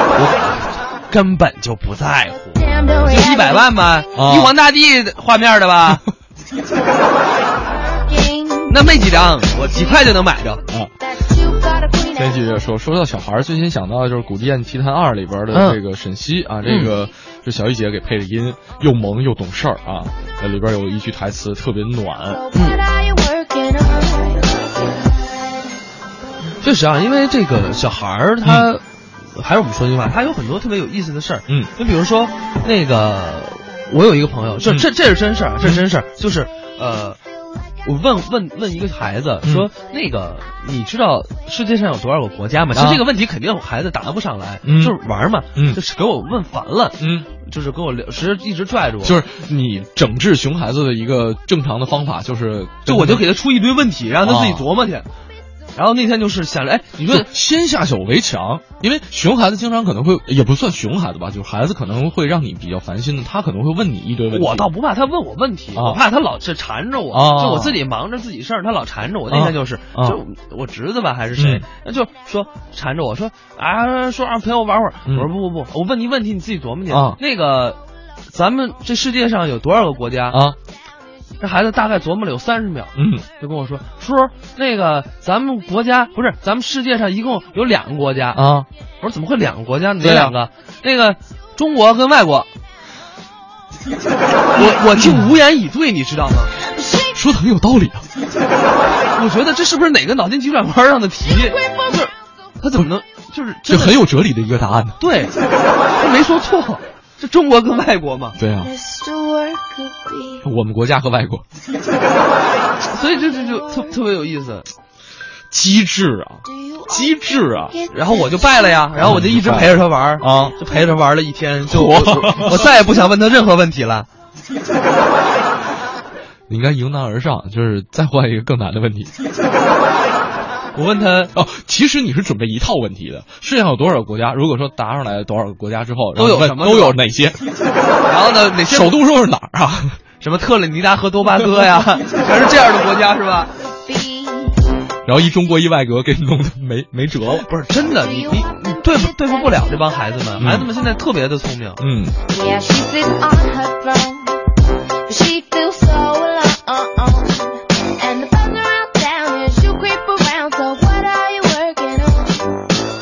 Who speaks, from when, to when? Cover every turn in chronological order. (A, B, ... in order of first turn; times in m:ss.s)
0:00.1-0:06.0 A
0:02.7-0:03.4 B
0:04.1-0:04.5 C
0:07.9-0:08.7 B
0:08.7-0:10.6 A
0:10.7-0:10.9 C
0:11.4-0:12.2 B
0:12.1-0:22.4 C
0:15.5-0:15.8 A
0:16.6-0:16.9 A
0:22.5-0:24.5 B
0:22.5-0:22.8 A
0:26.6-0:37.2 A
0:28.4-0:28.7 C
0:37.8-0:49.2 A
0:39.4-0:39.7 C
0:42.7-0:43.0 C
0:44.6-0:44.9 C
0:45.5-0:45.8 C
0:47.0-0:47.3 C
0:49.0-0:53.3 C
0:52.8-0:55.1 A
0:54.2-0:54.6 C
0:55.7-0:57.3 A
0:57.1-1:04.7 C
1:04.3-1:17.8 A
1:07.1-1:07.8 C
1:09.3-1:10.2 C
1:11.4-1:11.6 C
1:16.9-1:17.2 C
1:18.3-1:20.4 A
1:20.3-1:20.6 C
1:21.4-1:28.4 A
1:23.0-1:23.2 C
1:28.3-1:28.7 C
1:29.0-1:32.5 A
1:30.0-1:30.3 C
1:34.6-1:36.5 A
1:34.6-1:35.2 C
1:37.1-1:38.0 C
1:39.1-1:44.0 A
1:43.7-1:45.0 C
1:45.0-1:45.3 A
1:46.0-1:48.4 A
1:48.4-1:48.7 C
1:48.6-1:50.4 B
1:50.4-1:51.4 C
1:52.8-1:54.7 A
1:55.5-1:57.7 C
1:56.7-1:57.0 B
1:57.9-2:04.1 A
1:59.0-2:00.6 C
2:01.7-2:02.6 C
2:06.5-2:09.1 C
2:10.7-2:11.3 A
2:11.3-2:17.4 C
2:16.2-2:17.0 A
2:18.0-2:19.0 A
2:18.7-2:20.0 C
2:20.2-2:23.5 A
2:23.9-2:24.6 B
2:25.0-2:27.4 C
2:27.4-2:31.8 A
2:30.4-2:30.7 C
2:31.8-2:32.2 C
2:32.3-2:34.4 B
2:35.0-2:42.6 B